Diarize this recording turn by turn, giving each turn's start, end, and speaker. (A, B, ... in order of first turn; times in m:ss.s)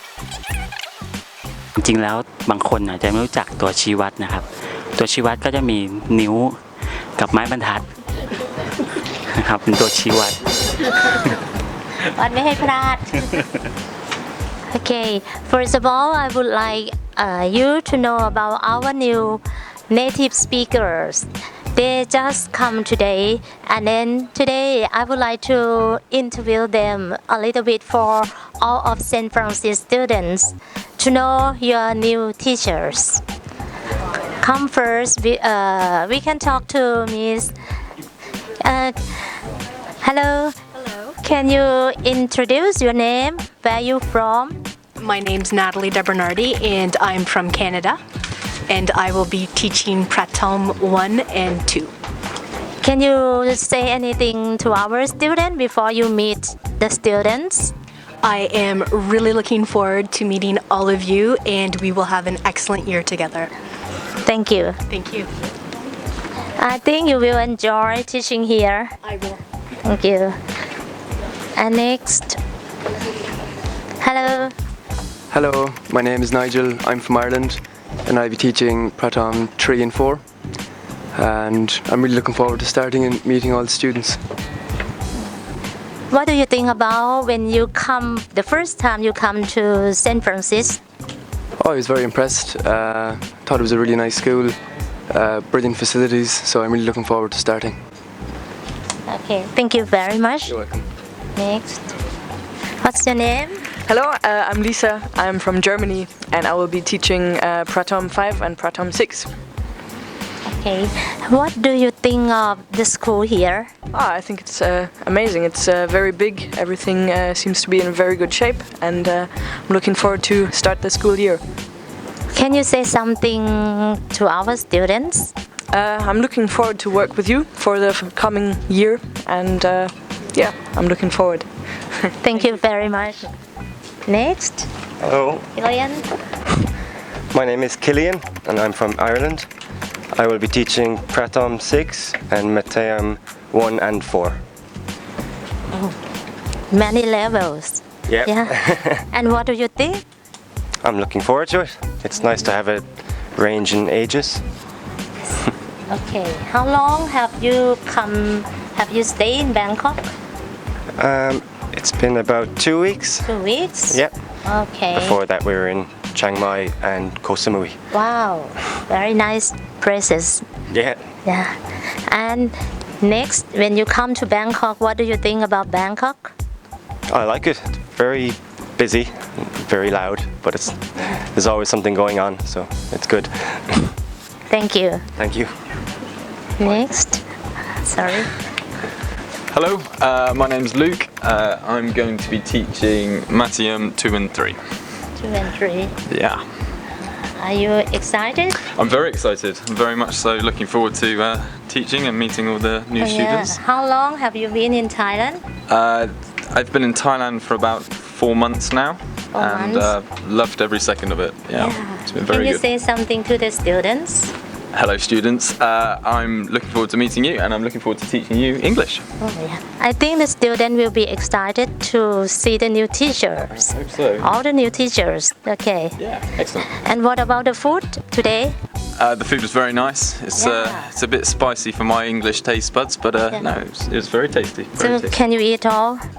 0:01.8-0:04.4 A
0:05.0-0:06.6 A
0:07.2-0:07.8 A
0:09.3-0:10.4 A
0:12.1-0:13.3 B
0:14.7-0:33.2 B
0:34.4-0:37.5 B
0:38.6-0:39.2 B
0:40.0-0:40.5 B
0:41.2-0:44.6 B
0:45.0-0:48.0 C
0:48.7-0:51.9 C
0:52.8-0:57.7 B
0:58.2-1:03.5 C
1:04.2-1:04.8 B
1:04.9-1:05.3 C
1:06.6-1:08.9 B
1:09.0-1:09.4 C
1:09.8-1:10.4 B
1:11.6-1:12.4 B
1:14.0-1:14.6 B
1:15.3-1:20.2 D
1:21.1-1:24.2 D
1:26.1-1:30.8 B
1:31.6-1:34.6 D
1:35.1-1:37.8 D
1:39.1-1:40.6 B
1:40.4-1:40.9 D
1:41.4-1:41.9 B
1:42.8-1:43.7 B
1:43.9-1:49.3 E
1:50.4-1:53.7 B
1:54.0-2:01.4 E
2:02.3-2:05.3 B
2:05.8-2:09.9 E
2:10.8-2:11.4 E
2:12.2-2:13.2 B
2:14.1-2:14.7 B
2:15.0-2:15.4 F
2:15.5-2:16.0 B
2:17.3-2:19.5 F
2:20.1-2:24.4 F
2:26.7-2:30.0 B
2:28.1-2:29.0 F
2:30.8-2:34.4 F
2:35.9-2:40.1 B
2:41.0-2:43.3 F
2:43.2-2:45.2 B
2:44.9-2:47.8 F
2:47.9-2:50.4 B
2:50.7-2:51.0 F
2:51.2-2:51.6 B
2:52.1-2:56.3 B
2:57.1-3:03.9 F
3:04.5-3:05.0 B
3:05.2-3:05.5 F
3:06.6-3:07.2 B
3:07.8-3:08.3 B
3:09.5-3:14.6 G
3:15.2-3:15.9 B
3:16.1-3:16.4 G
3:17.4-3:18.6 B
3:18.7-3:23.6 G
3:23.0-3:25.4 B
3:25.7-3:32.7 G
3:29.3-3:29.9 B
3:31.6-3:34.3 B
3:34.7-3:39.1 G
3:39.2-3:46.0 B
3:43.5-3:44.3 G
3:46.0-3:46.7 G
3:46.7-3:48.6 B
3:49.0-3:55.1 G
3:50.3-3:50.9 B
3:54.8-3:56.0 B